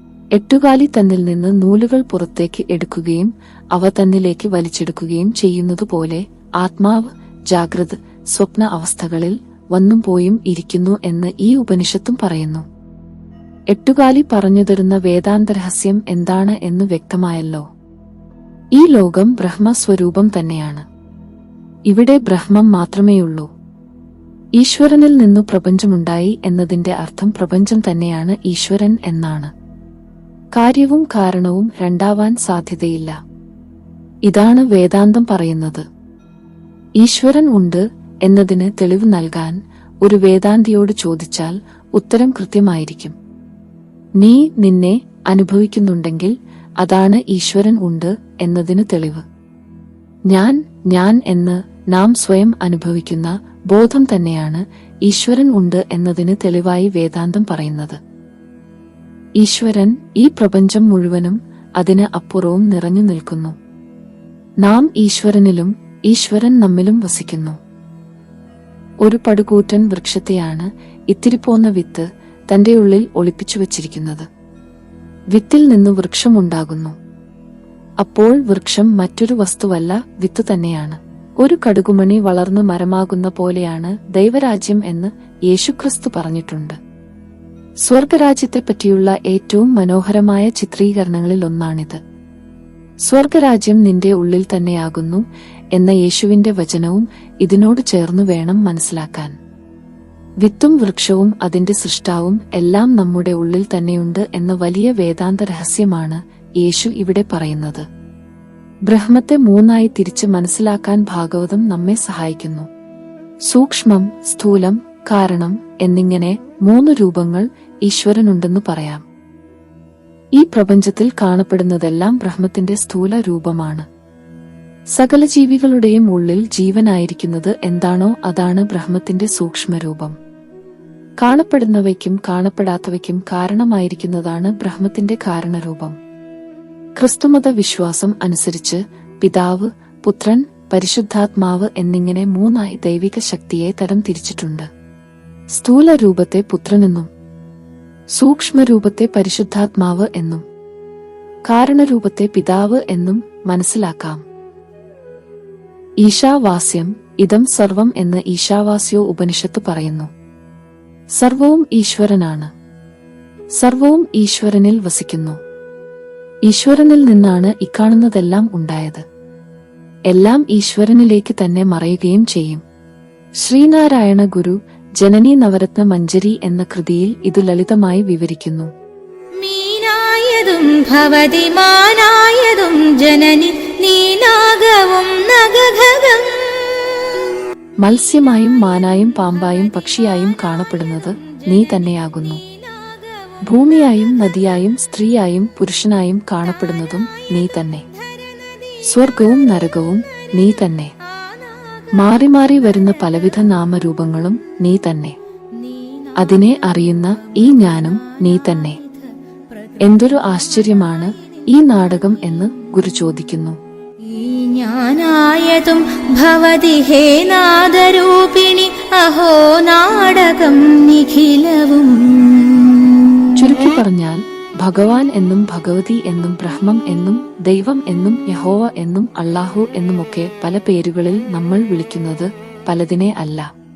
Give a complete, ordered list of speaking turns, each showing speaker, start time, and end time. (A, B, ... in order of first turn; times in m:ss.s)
0:00.4-0:12.6 A
0:13.7-0:17.6 A
0:18.8-0:20.8 A
0:21.9-0:23.5 A
0:24.6-0:29.5 A
0:30.6-0:33.2 A
0:34.3-0:35.8 A
0:37.0-0:43.1 A
0:44.2-0:49.2 A
0:50.3-0:58.0 A
0:59.4-1:03.6 A
1:04.6-1:07.6 A
1:09.1-1:14.3 A
1:15.3-1:17.0 A
1:18.0-1:26.8 A
1:27.9-1:32.0 A
1:33.1-1:35.2 A
1:35.8-1:39.3 A
1:40.4-1:47.8 A
1:48.9-1:52.7 A
1:53.5-1:59.0 A
2:00.4-2:03.9 A
2:05.0-2:10.2 A
2:11.2-2:16.0 A
2:17.0-2:24.7 A
2:25.5-2:27.1 A
2:28.2-2:30.4 A
2:31.5-2:34.2 A
2:36.0-2:40.1 A
2:41.2-2:42.5 A
2:43.6-2:45.4 A
2:46.5-2:49.0 A
2:50.1-2:52.6 A
2:53.4-2:58.7 A
2:59.4-3:07.3 B
3:07.8-3:12.4 A
3:12.4-3:13.3 B
3:13.5-3:17.9 A
3:18.2-3:18.8 B
3:18.8-3:20.9 A
3:21.2-3:21.9 B
3:21.9-3:25.2 A
3:25.6-3:26.6 B
3:26.2-3:28.8 A
3:27.5-3:30.8 B
3:29.8-3:33.6 A
3:34.1-3:43.3 B
3:43.4-3:53.5 A